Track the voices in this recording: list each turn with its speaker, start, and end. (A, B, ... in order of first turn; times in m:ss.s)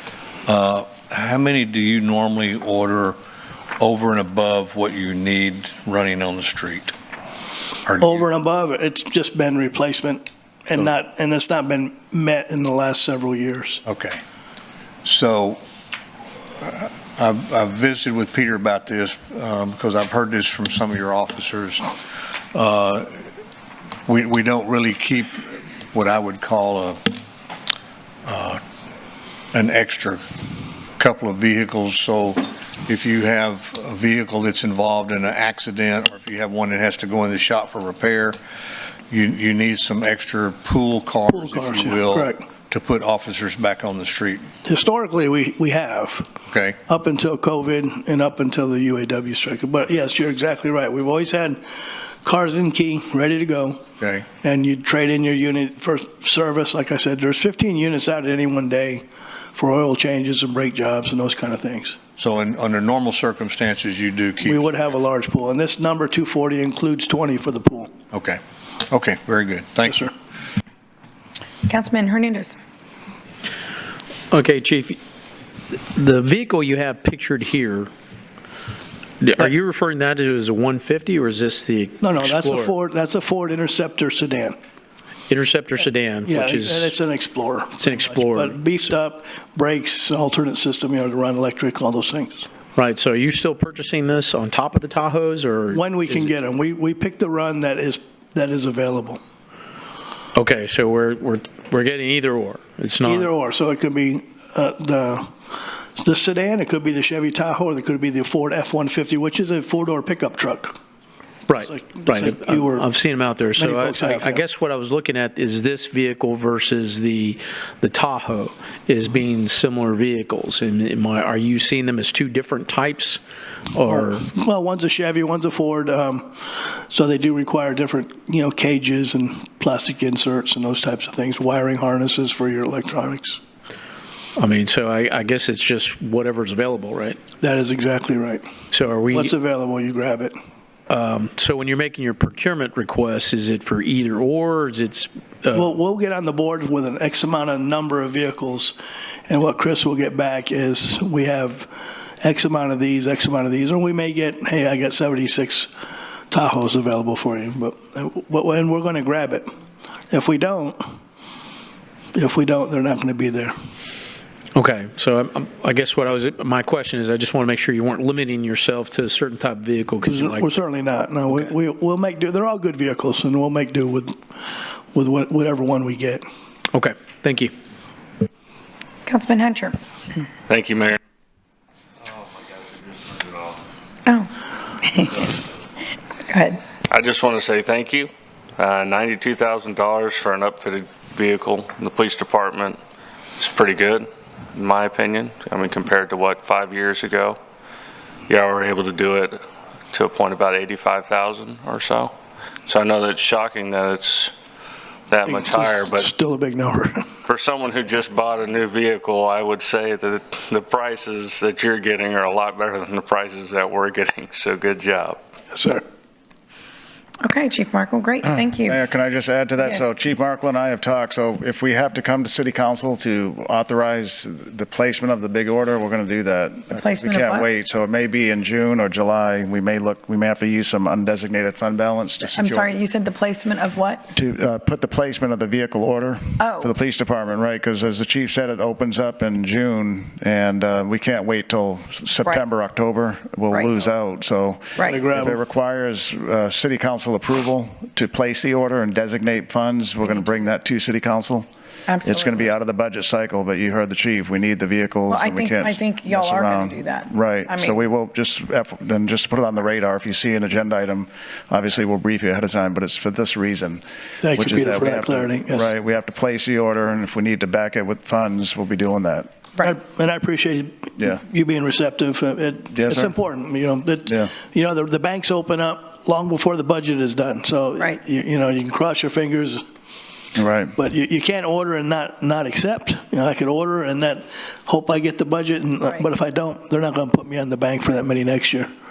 0:00.4-0:03.2 A
0:03.8-0:06.9 A
0:07.8-0:08.2 A
0:08.0-0:13.8 B
0:13.8-0:14.2 A
0:15.0-0:15.6 A
0:16.6-0:21.9 A
0:22.5-0:23.2 A
0:24.1-0:27.1 A
0:28.2-0:28.6 A
0:29.5-0:30.2 A
0:31.0-0:38.4 A
0:39.1-0:44.5 A
0:41.3-0:42.4 B
0:44.6-0:46.3 B
0:46.5-0:46.8 A
0:46.8-0:53.8 B
0:54.0-0:54.3 A
0:54.4-1:02.0 B
1:02.2-1:04.9 A
1:04.4-1:07.9 B
1:08.1-1:10.1 A
1:11.6-1:12.6 C
1:14.3-1:15.0 D
1:15.9-1:17.9 D
1:19.2-1:22.7 D
1:22.0-1:24.6 B
1:25.3-1:27.0 D
1:26.2-1:32.5 B
1:27.8-1:28.9 D
1:32.7-1:36.3 D
1:35.7-1:39.2 B
1:40.3-1:43.3 D
1:43.0-1:50.8 B
1:51.5-2:03.2 D
1:51.5-1:52.8 B
1:53.5-1:54.4 B
2:03.7-2:04.3 D
2:03.8-2:13.4 B
2:14.4-2:17.2 D
2:17.4-2:18.4 B
2:18.7-2:19.3 D
2:19.1-2:20.4 B
2:20.9-2:25.7 D
2:25.5-2:28.8 B
2:29.3-2:35.7 B
2:36.3-2:39.5 B
2:40.1-2:40.8 B
2:42.1-2:43.5 B
2:44.5-2:50.5 D
2:50.0-2:56.2 B
2:56.7-2:57.5 D
2:59.0-2:59.8 C
3:00.5-3:01.0 E
3:02.1-3:03.6 E
3:04.0-3:05.3 C
3:06.2-3:06.6 C
3:06.9-3:12.8 E
3:13.4-3:17.4 E
3:18.3-3:19.4 E
3:19.9-3:22.1 E
3:22.7-3:24.3 E
3:25.1-3:26.1 E
3:25.2-3:27.1 B
3:27.2-3:35.2 E
3:35.5-3:35.8 B
3:37.2-3:38.8 C
3:38.2-3:52.8 F
3:46.7-3:47.5 C
3:52.3-3:54.0 C
3:54.1-4:11.5 F
3:56.4-3:56.7 C
4:04.8-4:05.0 C
4:04.8-4:05.4 B
4:11.9-4:12.5 C
4:12.0-4:29.3 F
4:15.1-4:17.8 C
4:24.2-4:25.7 B
4:29.6-4:39.6 B
4:32.7-4:33.1 F
4:40.3-4:40.7 F
4:40.8-4:48.7 B